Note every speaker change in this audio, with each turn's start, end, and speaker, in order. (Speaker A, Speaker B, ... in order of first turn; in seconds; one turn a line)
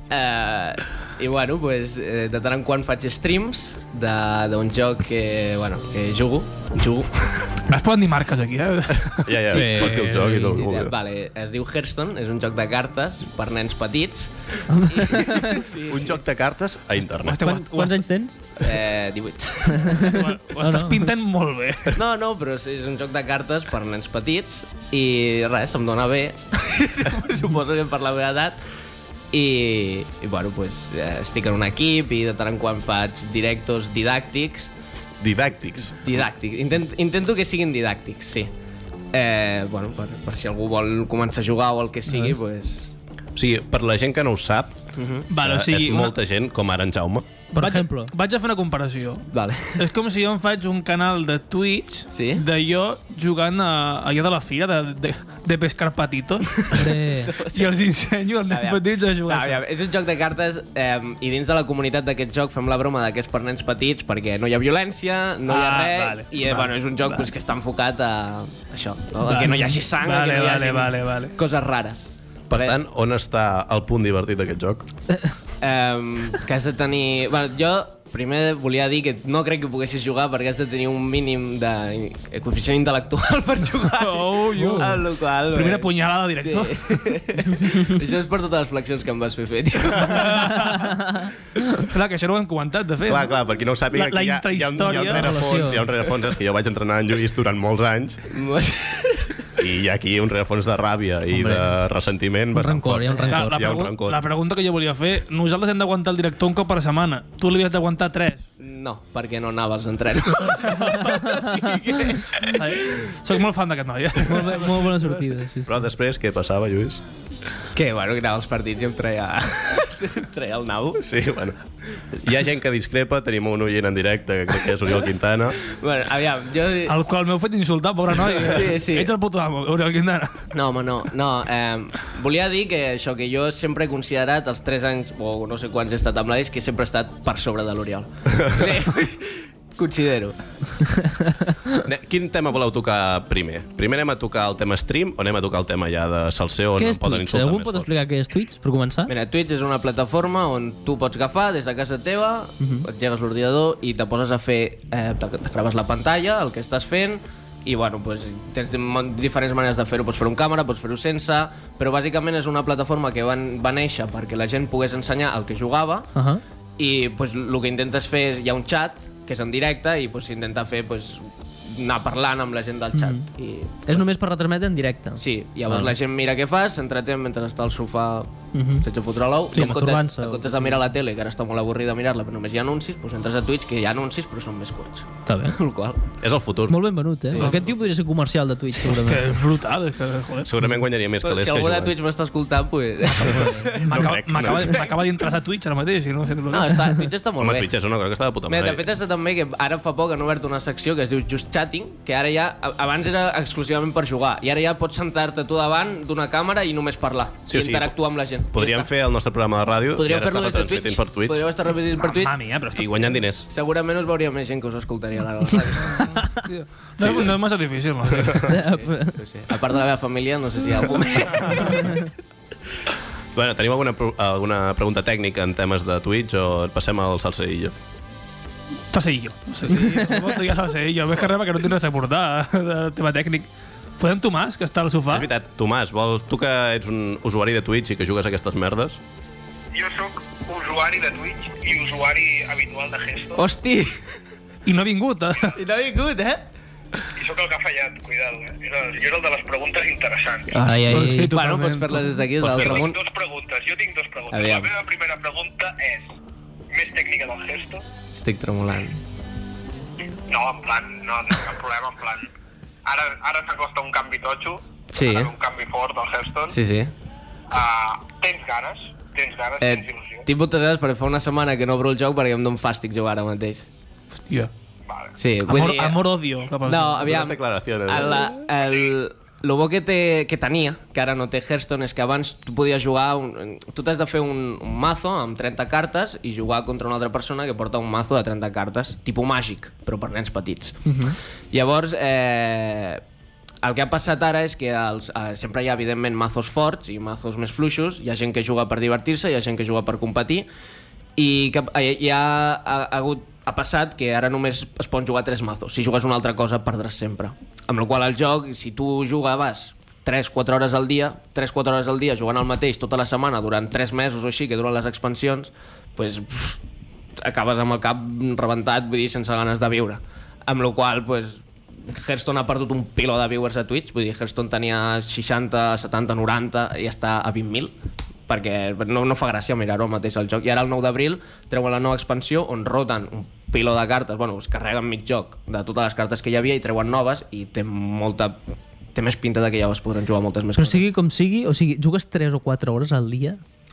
Speaker A: 0.1-7.5
Speaker B: 7.7-9.5
Speaker C: 9.2-10.9
Speaker D: 9.5-10.6
Speaker A: 10.5-16.2
Speaker D: 14.7-15.6
Speaker C: 15.9-17.5
Speaker B: 17.1-18.0
Speaker D: 17.4-18.4
Speaker A: 18.6-20.2
Speaker D: 19.8-21.1
Speaker B: 20.0-22.0
Speaker A: 21.9-28.6
Speaker A: 29.3-34.7
Speaker C: 35.2-36.2
Speaker A: 36.0-38.5
Speaker A: 39.1-42.9
Speaker B: 42.1-42.3
Speaker C: 43.4-44.8
Speaker A: 45.0-45.3
Speaker B: 45.3-46.2
Speaker C: 45.4-47.3
Speaker D: 47.5-48.1
Speaker B: 47.6-59.6
Speaker A: 49.3-49.9
Speaker A: 52.1-52.5
Speaker D: 56.7-57.3
Speaker A: 56.7-57.8
Speaker A: 58.5-72.8
Speaker B: 65.5-67.3
Speaker B: 69.2-71.3
Speaker C: 72.5-74.8
Speaker A: 75.6-90.6
Speaker B: 84.0-87.2
Speaker D: 84.6-84.9
Speaker B: 90.0-91.1
Speaker D: 90.7-91.3
Speaker B: 91.7-93.4
Speaker C: 93.1-98.2
Speaker B: 93.9-95.4
Speaker D: 95.0-95.9
Speaker A: 98.3-99.5
Speaker C: 99.6-104.2
Speaker D: 101.3-101.7
Speaker D: 102.5-103.7
Speaker B: 103.3-108.4
Speaker A: 108.6-113.0
Speaker B: 110.7-111.0
Speaker B: 112.4-115.1
Speaker D: 114.2-115.8
Speaker C: 115.7-117.0
Speaker A: 117.8-121.0
Speaker C: 121.0-125.6
Speaker A: 125.6-127.0
Speaker B: 126.9-130.5
Speaker A: 128.4-129.1
Speaker A: 130.5-140.4
Speaker D: 141.0-141.8
Speaker C: 141.8-147.9
Speaker D: 146.8-149.1
Speaker A: 149.1-166.1
Speaker D: 152.6-152.9
Speaker D: 166.2-166.4
Speaker A: 166.8-174.1
Speaker D: 172.9-173.3
Speaker D: 173.8-175.9
Speaker A: 175.2-186.0
Speaker D: 178.5-178.8
Speaker D: 179.5-180.6
Speaker D: 185.3-185.6
Speaker C: 186.2-187.0
Speaker D: 186.7-189.3
Speaker A: 187.3-187.7
Speaker B: 188.9-190.5
Speaker C: 190.4-191.9
Speaker A: 191.2-194.9
Speaker D: 193.2-193.8
Speaker C: 193.9-194.8
Speaker B: 193.9-197.0
Speaker A: 196.5-197.7
Speaker C: 197.4-198.9
Speaker A: 198.5-208.9
Speaker C: 207.5-208.0
Speaker C: 208.5-211.4
Speaker A: 210.0-212.4
Speaker B: 212.0-213.1
Speaker C: 212.7-213.5
Speaker A: 213.5-216.4
Speaker B: 216.1-218.5
Speaker C: 217.0-217.3
Speaker D: 218.4-219.2
Speaker A: 218.5-222.2
Speaker D: 221.5-222.0
Speaker C: 223.3-227.8
Speaker B: 228.9-233.5
Speaker D: 229.7-230.2
Speaker B: 234.0-235.3
Speaker C: 235.1-239.0
Speaker E: 239.7-243.5
Speaker A: 243.4-244.0
Speaker B: 244.7-245.6
Speaker A: 245.5-246.5
Speaker E: 247.2-250.6
Speaker A: 250.5-253.0
Speaker D: 250.6-251.3
Speaker B: 250.9-252.2
Speaker C: 252.4-252.9
Speaker E: 252.5-256.1
Speaker A: 254.3-254.7
Speaker E: 256.7-257.8
Speaker A: 258.1-259.0
Speaker E: 260.3-262.3
Speaker E: 262.9-266.6
Speaker A: 264.9-265.3
Speaker A: 266.5-266.9
Speaker E: 267.5-270.3
Speaker A: 269.6-273.7
Speaker B: 274.3-274.5
Speaker E: 274.9-275.1
Speaker A: 275.2-276.0
Speaker B: 275.5-277.1
Speaker A: 276.6-291.0
Speaker C: 277.0-278.3
Speaker D: 290.9-291.1
Speaker A: 291.5-293.0
Speaker A: 293.6-300.5
Speaker A: 301.2-316.6
Speaker A: 317.2-327.7
Speaker A: 328.3-340.9
Speaker D: 340.6-343.4